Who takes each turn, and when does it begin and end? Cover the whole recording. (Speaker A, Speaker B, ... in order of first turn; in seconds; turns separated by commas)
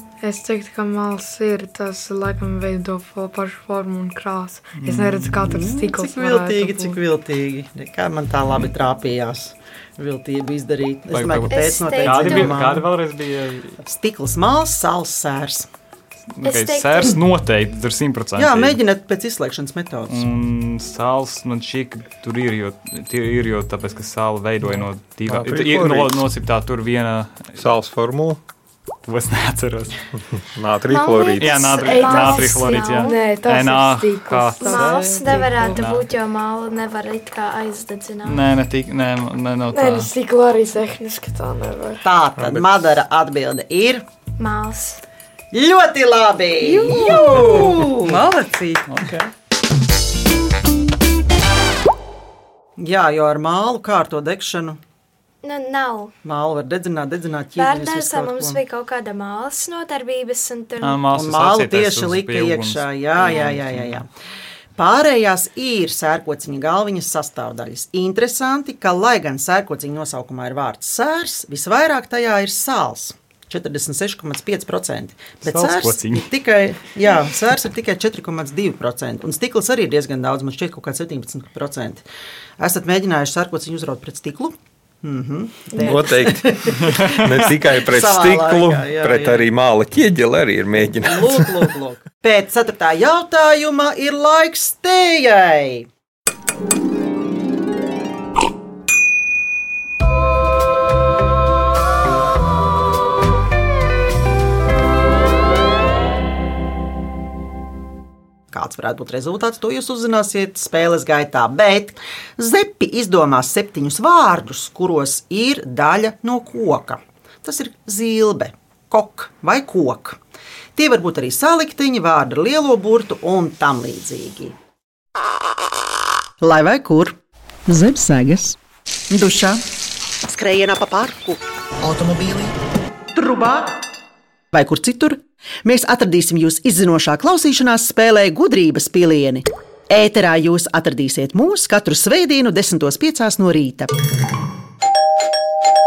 Speaker A: 0.2-7.0, Speaker B: 4.8-5.5, Speaker C: 5.5-12.9, Speaker B: 11.1-13.8, Speaker D: 11.5-12.6, Speaker C: 13.8-15.7, Speaker B: 16.4-18.8, Speaker D: 16.4-17.2, Speaker C: 18.4-20.3, Speaker B: 20.1-27.6, Speaker E: 24.7-26.3, Speaker E: 27.6-28.4, Speaker B: 29.1-30.0, Speaker E: 30.5-32.2, Speaker D: 30.9-33.4, Speaker B: 31.4-36.1, Speaker A: 31.8-35.8, Speaker D: 34.6-38.4, Speaker B: 38.2-40.1, Speaker A: 39.7-42.0, Speaker C: 42.0-44.0, Speaker E: 42.4-43.0, Speaker D: 44.4-45.0, Speaker C: 45.5-48.2, Speaker F: 46.6-49.1, Speaker B: 48.9-49.3, Speaker C: 52.8-54.8, Speaker D: 55.4-56.1, Speaker C: 56.2-58.6, Speaker D: 57.6-61.1, Speaker B: 60.8-64.0, Speaker C: 61.1-64.1, Speaker D: 63.2-63.5, Speaker C: 64.8-82.0, Speaker B: 75.4-76.3, Speaker C: 82.6-89.5, Speaker E: 85.8-91.7, Speaker C: 91.0-95.9, Speaker C: 108.5-120.2, Speaker C: 120.8-124.6, Speaker C: 126.4-128.6, Speaker C: 129.1-129.6, Speaker C: 130.2-132.5, Speaker C: 133.1-133.8, Speaker C: 134.5-143.9